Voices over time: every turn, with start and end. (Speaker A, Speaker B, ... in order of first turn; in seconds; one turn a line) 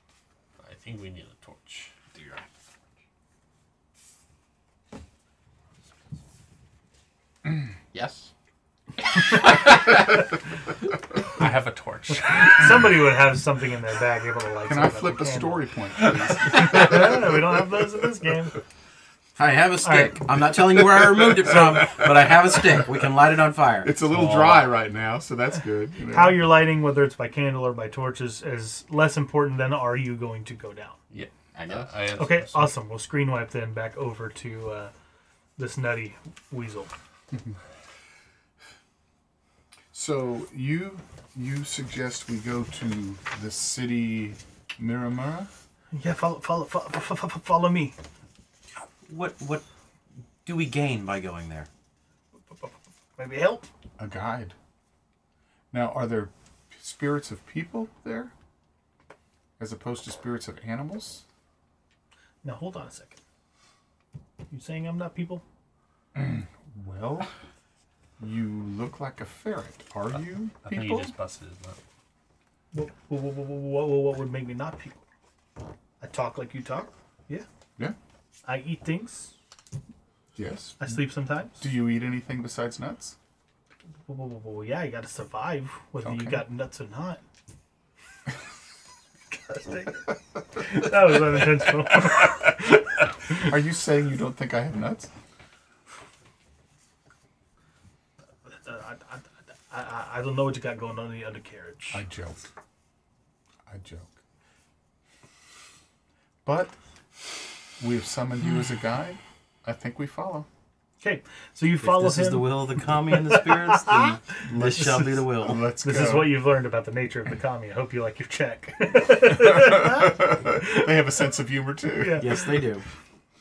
Speaker A: 0.6-1.9
Speaker B: 2.1-2.5
Speaker B: 7.9-8.3
Speaker B: 9.1-10.2
Speaker A: 11.4-12.9
Speaker C: 12.5-15.7
Speaker D: 14.7-17.4
Speaker C: 16.3-18.6
Speaker E: 19.4-23.9
Speaker C: 19.8-20.2
Speaker D: 21.4-22.1
Speaker D: 23.8-26.5
Speaker A: 24.1-24.7
Speaker C: 26.1-31.0
Speaker A: 31.1-32.7
Speaker B: 31.5-31.9
Speaker C: 32.2-34.9
Speaker C: 35.6-36.9
Speaker D: 39.9-45.5
Speaker C: 45.9-48.0
Speaker E: 49.1-49.6
Speaker E: 50.4-51.7
Speaker C: 52.4-53.7
Speaker D: 54.0-54.6
Speaker D: 55.7-58.3
Speaker D: 59.6-61.2
Speaker C: 62.4-63.2
Speaker C: 64.5-65.4
Speaker D: 66.1-67.3
Speaker D: 68.2-71.1
Speaker A: 70.6-71.8
Speaker C: 72.7-75.0
Speaker C: 76.0-77.5
Speaker C: 78.5-79.3
Speaker D: 80.3-81.1
Speaker C: 80.8-81.6
Speaker D: 81.6-83.2
Speaker C: 84.1-87.2
Speaker D: 86.0-86.4
Speaker C: 89.3-92.8
Speaker D: 93.3-95.1
Speaker C: 98.5-102.0
Speaker D: 101.9-102.4
Speaker D: 103.7-104.2
Speaker D: 106.4-106.8
Speaker D: 107.8-110.5
Speaker C: 111.0-115.3
Speaker E: 111.8-115.6
Speaker D: 114.5-116.4
Speaker C: 115.8-120.9
Speaker D: 119.3-122.7
Speaker C: 122.0-122.3
Speaker E: 122.2-122.8